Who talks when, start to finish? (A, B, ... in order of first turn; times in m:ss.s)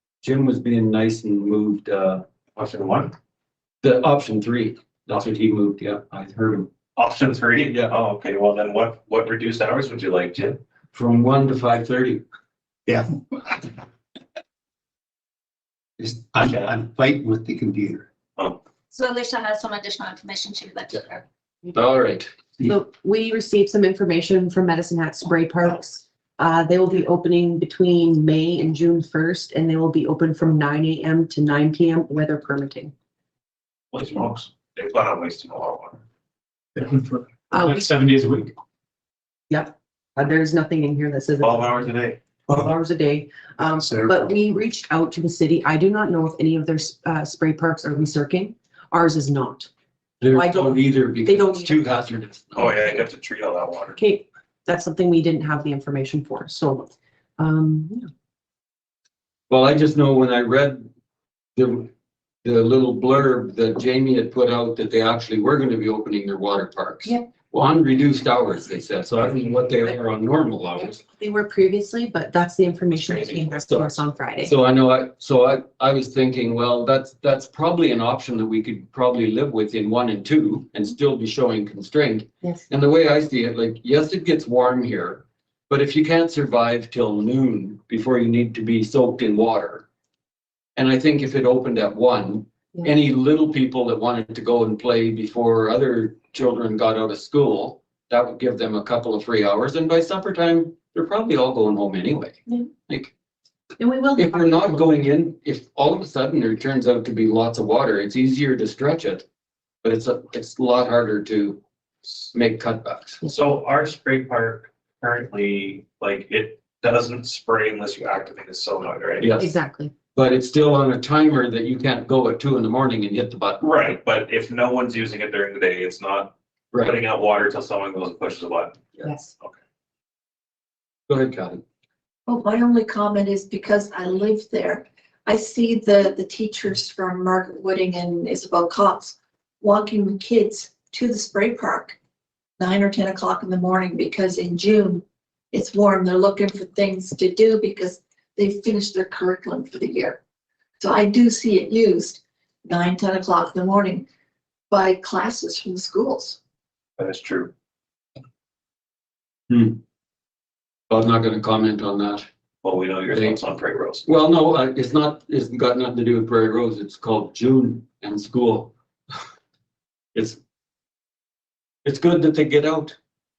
0:00.2-0:02.2 A
0:02.6-0:03.1 B
0:03.8-0:06.7 A
0:07.0-0:10.6 B
0:07.6-0:07.9 A
0:10.9-0:12.2 A
0:12.9-0:13.6 C
0:16.0-0:18.1 C
0:18.9-0:21.2 D
0:21.7-0:22.3 A
0:22.6-0:32.9 E
0:33.9-0:36.0 B
0:37.5-0:38.0 E
0:37.6-0:38.5 B
0:39.5-0:41.9 E
0:41.4-0:42.2 B
0:42.5-0:42.8 C
0:42.6-0:49.7 E
0:43.8-0:44.4 C
0:50.2-0:53.0 A
0:50.3-0:51.8 E
0:52.6-0:54.0 B
0:54.0-0:58.1 E
0:59.5-1:00.9 A
1:01.6-1:01.9 A
1:02.4-1:11.0 A
1:10.8-1:14.5 E
1:12.9-1:13.5 B
1:13.5-1:29.8 A
1:30.8-1:43.1 A
1:43.8-1:45.0 E
1:44.2-1:49.2 A
1:49.8-1:51.6 A
1:52.3-1:53.2 A
1:53.2-1:59.3 B
1:59.2-1:59.5 A
1:59.4-1:59.9 E
2:00.1-2:03.9 A
2:03.6-2:09.6 B
2:06.7-2:07.0 A
2:09.0-2:09.3 E
2:11.1-2:11.6 A
2:12.3-2:22.0 F
2:22.6-2:30.2 F
2:30.8-2:34.0 F
2:34.7-2:36.4 F
2:37.0-2:37.5 B
2:39.5-2:39.8 A
2:40.9-2:42.3 A
2:42.6-2:44.1 B
2:43.1-2:43.4 A
2:44.1-2:48.7 A
2:50.1-2:50.4 A
2:51.8-2:53.0 A